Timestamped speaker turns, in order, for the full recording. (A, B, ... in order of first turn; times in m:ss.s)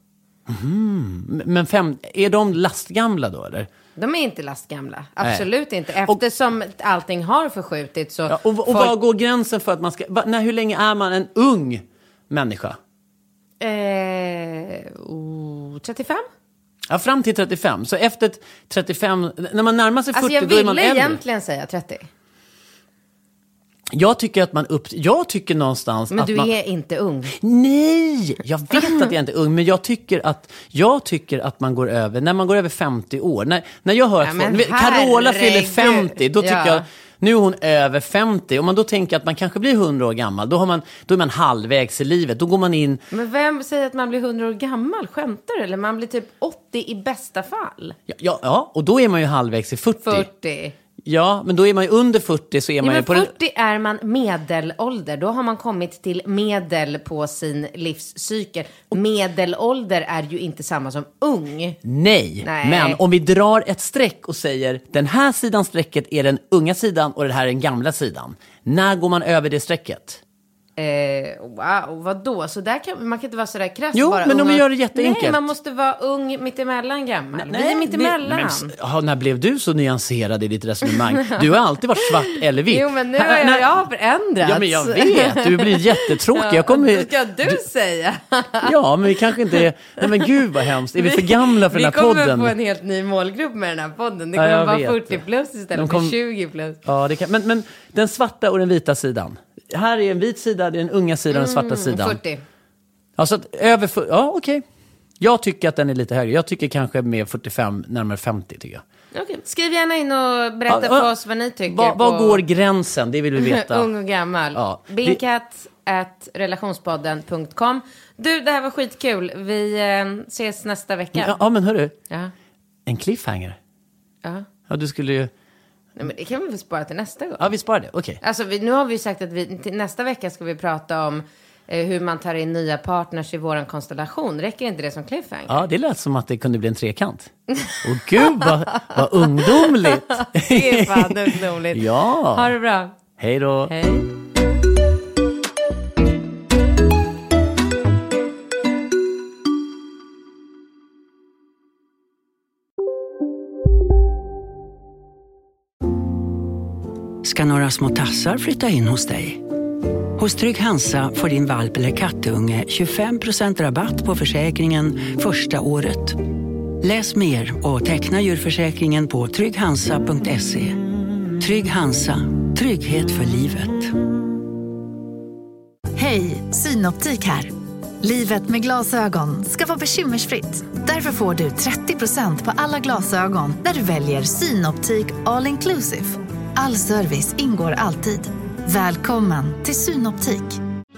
0:00.5-0:03.7 A
0:04.0-0:08.9 B
0:08.3-0:12.8 A
0:13.6-0:16.3 B
0:16.9-0:21.2 A
0:20.1-0:22.1 B
0:23.9-0:26.5 A
0:26.1-0:27.3 B
0:27.3-0:43.0 A
0:34.2-0:36.8 B
0:43.1-0:48.0 B
0:48.1-0:50.3 A
0:50.0-0:50.7 B
0:51.0-0:53.3 A
0:52.8-1:01.8 B
1:01.8-1:10.2 A
1:02.4-1:03.0 B
1:10.8-1:18.7 B
1:13.9-1:15.4 A
1:17.4-1:23.7 A
1:22.0-1:28.7 B
1:24.4-1:27.6 A
1:28.6-1:32.5 A
1:29.5-1:30.3 B
1:31.0-1:36.8 B
1:34.3-1:35.2 A
1:35.7-1:36.2 A
1:36.8-1:42.2 A
1:41.3-1:42.4 B
1:43.2-1:44.6 A
1:45.2-1:48.8 A
1:49.1-1:52.4 B
1:50.7-1:51.1 A
1:51.7-1:53.9 A
1:53.4-2:01.4 B
1:54.5-1:55.2 A
2:01.1-2:02.0 A
2:02.8-2:03.6 A
2:04.7-2:05.3 A
2:06.0-2:07.5 B
2:07.4-2:08.2 A
2:08.2-2:15.6 B
2:15.5-2:22.5 A
2:17.6-2:18.9 B
2:19.5-2:23.0 B
2:23.2-2:23.7 A
2:23.7-2:24.1 B
2:37.2-2:39.4 C
2:40.2-2:46.2 C
2:46.8-2:50.8 C
2:51.4-2:53.9 C
2:56.0-3:10.6 D